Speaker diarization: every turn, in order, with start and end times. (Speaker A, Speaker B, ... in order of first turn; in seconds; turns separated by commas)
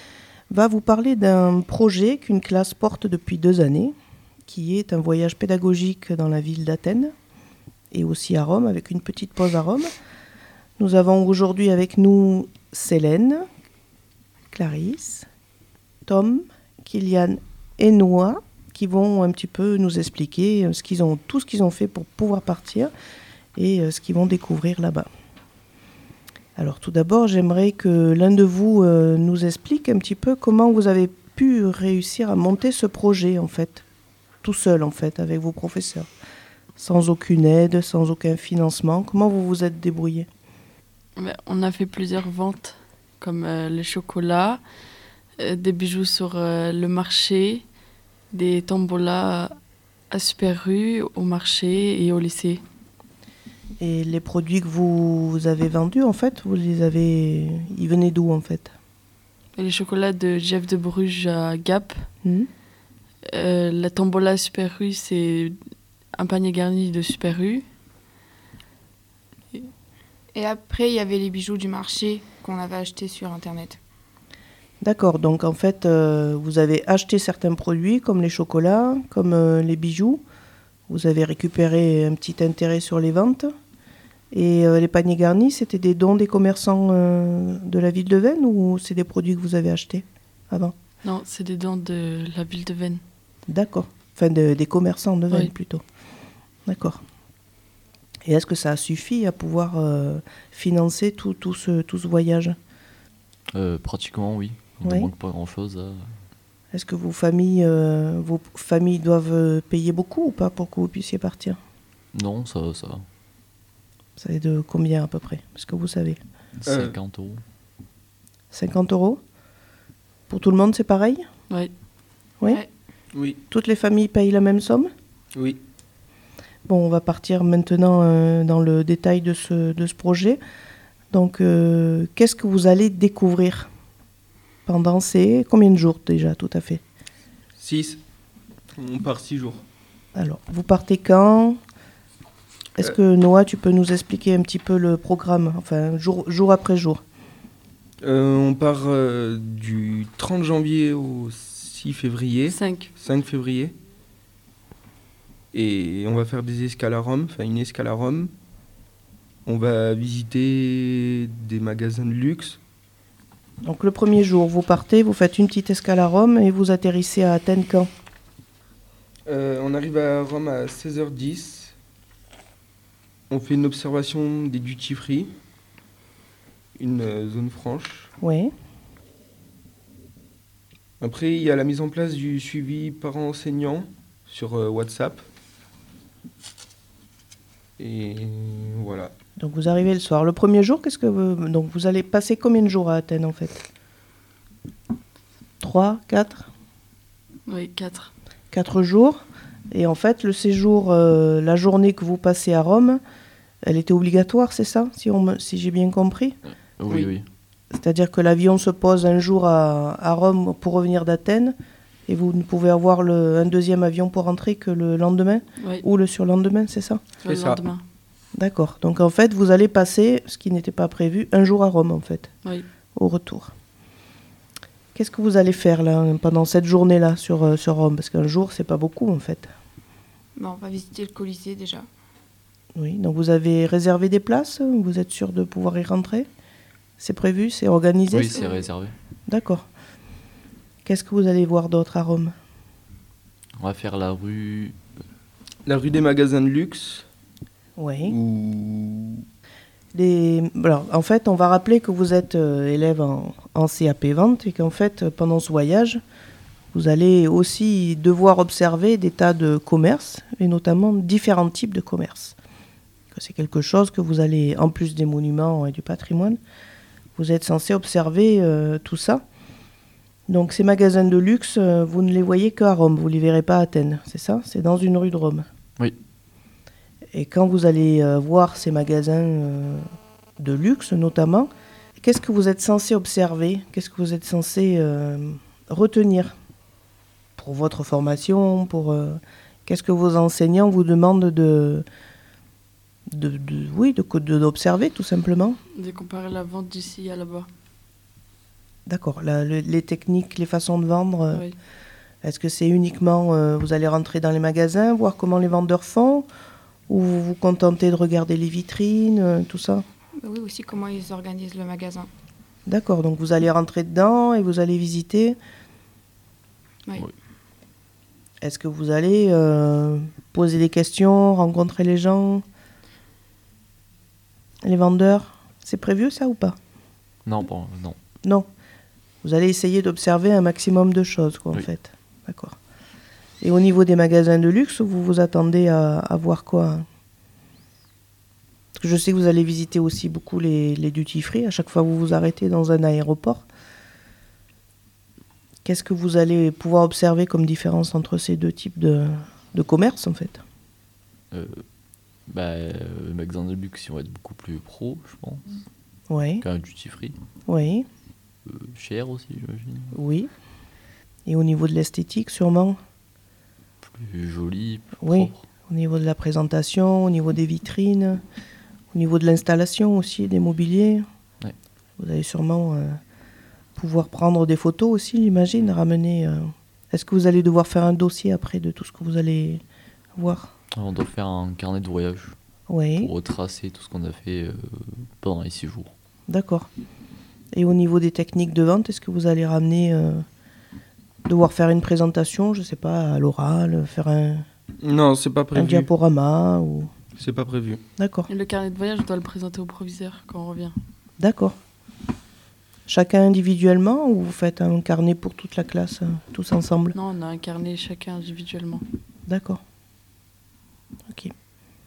Speaker A: 0.5-3.9, Speaker A: 4.5-7.1, Speaker A: 7.9-9.9, Speaker A: 10.8-13.4, Speaker A: 14.5-15.3, Speaker A: 16.1-22.9, Speaker A: 23.6-25.1, Speaker A: 26.6-33.8, Speaker A: 34.4-36.1, Speaker A: 36.8-40.3, Speaker B: 41.2-44.6, Speaker B: 45.4-47.6, Speaker B: 48.3-49.6, Speaker B: 50.1-52.6, Speaker A: 53.8-58.7, Speaker B: 59.5-62.1, Speaker A: 62.2-62.5, Speaker B: 63.3-65.6, Speaker B: 66.1-67.7, Speaker C: 70.3-73.8, Speaker A: 74.8-80.2, Speaker A: 80.9-83.5, Speaker A: 84.3-90.7, Speaker B: 91.0-93.0, Speaker A: 93.5-95.8, Speaker A: 96.7-97.0, Speaker A: 98.2-102.6, Speaker D: 103.5-106.2, Speaker A: 104.8-105.1, Speaker A: 106.7-111.6, Speaker D: 112.1-113.0, Speaker A: 114.2-116.2, Speaker D: 116.5-117.4, Speaker E: 116.7-117.0, Speaker A: 118.5-119.2, Speaker A: 120.3-121.2, Speaker E: 123.1-123.4, Speaker A: 123.5-124.9, Speaker E: 125.3-125.6, Speaker A: 126.7-130.4, Speaker A: 131.1-133.7, Speaker A: 134.7-136.8, Speaker E: 137.6-138.0, Speaker E: 138.8-139.6, Speaker A: 140.1-141.6, Speaker A: 142.8-147.0, Speaker E: 148.0-153.7, Speaker B: 152.4-152.9, Speaker E: 155.5-158.3, Speaker E: 159.4-162.6, Speaker A: 163.6-167.9, Speaker E: 169.3-171.8, Speaker E: 173.3-175.3, Speaker E: 176.8-178.1, Speaker A: 178.2-178.5, Speaker E: 181.0-185.2, Speaker E: 187.8-189.1, Speaker A: 189.4-193.6, Speaker A: 195.6-196.5, Speaker B: 197.5-198.1, Speaker A: 198.5-203.0, Speaker A: 203.6-206.4, Speaker D: 206.4-207.2, Speaker A: 207.7-211.5, Speaker A: 212.1-217.0, Speaker B: 215.6-215.8, Speaker B: 217.2-217.8, Speaker E: 217.2-217.7, Speaker A: 218.3-222.3, Speaker A: 222.9-223.5, Speaker A: 224.9-229.5, Speaker C: 230.3-231.9, Speaker A: 232.7-236.3, Speaker A: 237.0-238.4, Speaker D: 238.1-238.9, Speaker C: 238.3-238.7, Speaker A: 239.3-239.7, Speaker A: 240.8-242.3, Speaker D: 243.6-244.8, Speaker E: 245.7-247.1, Speaker A: 247.8-248.1, Speaker E: 248.0-249.2, Speaker A: 249.9-256.0, Speaker A: 256.7-262.4, Speaker A: 263.1-266.4, Speaker A: 267.1-269.2, Speaker A: 270.3-275.4, Speaker A: 277.1-279.8, Speaker A: 280.4-286.3, Speaker A: 287.4-291.8, Speaker A: 293.1-295.6, Speaker B: 295.7-297.5, Speaker A: 298.9-301.5, Speaker A: 302.2-306.3, Speaker A: 306.9-309.8, Speaker C: 310.2-312.1, Speaker A: 312.6-315.4, Speaker A: 318.4-322.4, Speaker A: 324.6-326.6, Speaker D: 327.2-328.0, Speaker A: 329.2-332.6, Speaker A: 333.4-336.9, Speaker A: 338.8-343.4, Speaker A: 345.6-350.4, Speaker D: 351.3-351.6, Speaker D: 352.2-355.5, Speaker A: 356.1-356.4, Speaker D: 356.4-357.2, Speaker A: 357.5-357.9, Speaker D: 358.4-360.0, Speaker A: 359.9-360.3, Speaker A: 361.2-362.8, Speaker D: 363.8-365.4, Speaker A: 365.0-368.2, Speaker A: 368.9-371.0, Speaker A: 372.0-373.0, Speaker A: 373.8-379.6, Speaker A: 380.2-380.5, Speaker D: 380.7-382.4, Speaker A: 382.7-383.1, Speaker D: 382.9-385.9, Speaker A: 386.3-386.7, Speaker A: 387.5-390.2, Speaker A: 391.2-394.4, Speaker E: 394.8-395.9, Speaker A: 395.5-396.9, Speaker E: 397.1-397.8, Speaker A: 398.0-398.3, Speaker B: 398.3-400.8, Speaker A: 401.2-401.6, Speaker A: 402.9-407.0, Speaker B: 406.9-408.8, Speaker A: 409.2-409.6